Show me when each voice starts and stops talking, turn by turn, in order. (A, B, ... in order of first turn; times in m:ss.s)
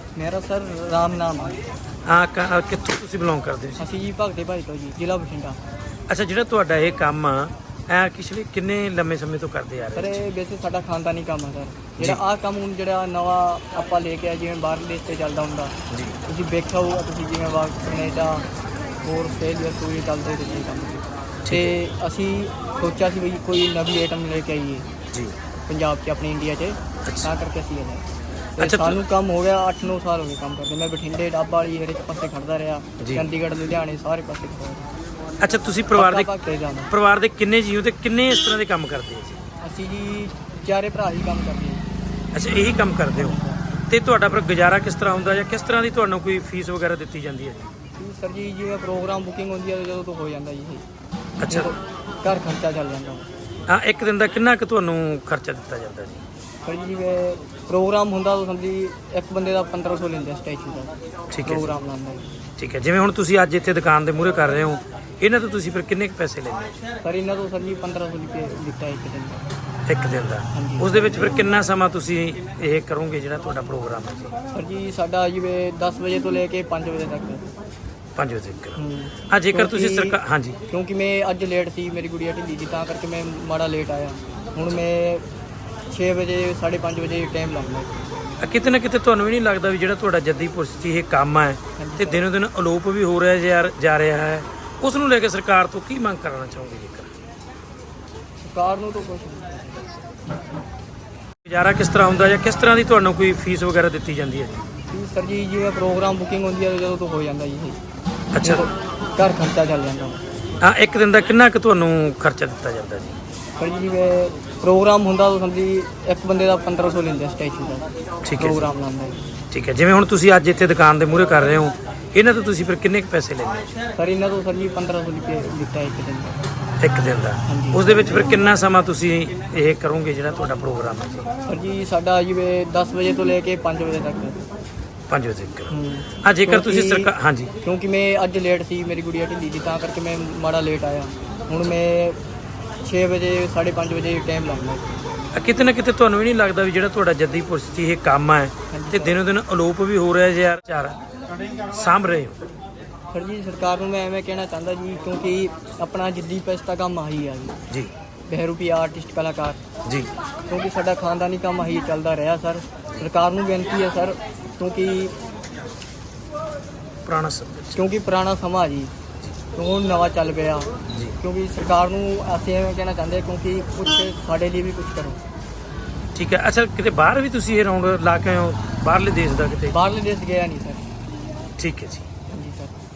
0:00.2-0:01.6 A
0:02.1-0:03.8 B
0:03.8-0:05.6 A
0:06.1-0:10.2 B
0:09.9-0:15.7 A
0:15.9-0:16.2 B
0:16.2-0:18.4 A
0:19.0-0:24.9 A
0:21.4-0:21.8 B
0:25.6-0:28.0 A
0:27.0-0:27.3 B
0:28.6-0:34.8 A
0:28.6-0:29.0 B
0:33.0-0:33.2 B
0:35.4-0:36.3 B
0:35.9-0:36.9 A
0:36.9-0:39.4 B
0:39.6-0:41.8 A
0:42.3-0:47.7 B
0:43.1-0:43.7 A
0:48.0-0:50.8 A
0:51.4-0:51.7 B
0:51.5-0:53.2 A
0:53.7-0:56.2 B
0:56.6-1:00.9 A
1:01.3-1:01.8 B
1:01.4-1:02.2 A
1:02.6-1:06.8 B
1:07.0-1:09.4 A
1:09.9-1:14.3 B
1:10.5-1:11.2 A
1:14.5-1:17.4 A
1:18.2-1:18.8 B
1:18.7-1:20.2 A
1:19.3-1:20.6 B
1:20.7-1:25.2 A
1:25.9-1:28.0 A
1:28.4-1:37.1 B
1:31.8-1:32.2 A
1:38.4-1:39.8 A
1:41.4-1:44.6 B
1:44.9-1:47.8 A
1:48.3-1:48.6 B
1:48.4-1:50.2 A
1:50.6-1:53.2 B
1:53.6-1:57.9 A
1:58.2-1:58.7 B
1:58.4-1:59.2 A
1:59.5-2:03.7 B
2:04.0-2:06.4 A
2:06.8-2:11.3 B
2:07.5-2:08.5 A
2:11.4-2:14.4 A
2:15.1-2:15.7 B
2:15.7-2:22.2 A
2:16.2-2:17.5 B
2:22.8-2:24.9 A
2:25.3-2:31.0 B
2:28.7-2:29.2 A
2:31.7-2:32.4 B
2:33.1-2:37.6 A
2:38.3-2:39.6 A
2:40.5-2:45.1 A
2:47.0-2:47.8 B
2:47.7-2:48.9 A
2:49.5-2:55.2 A
2:56.1-2:59.8 B
2:59.7-3:00.8 A
3:01.6-3:02.1 B
3:02.3-3:02.7 A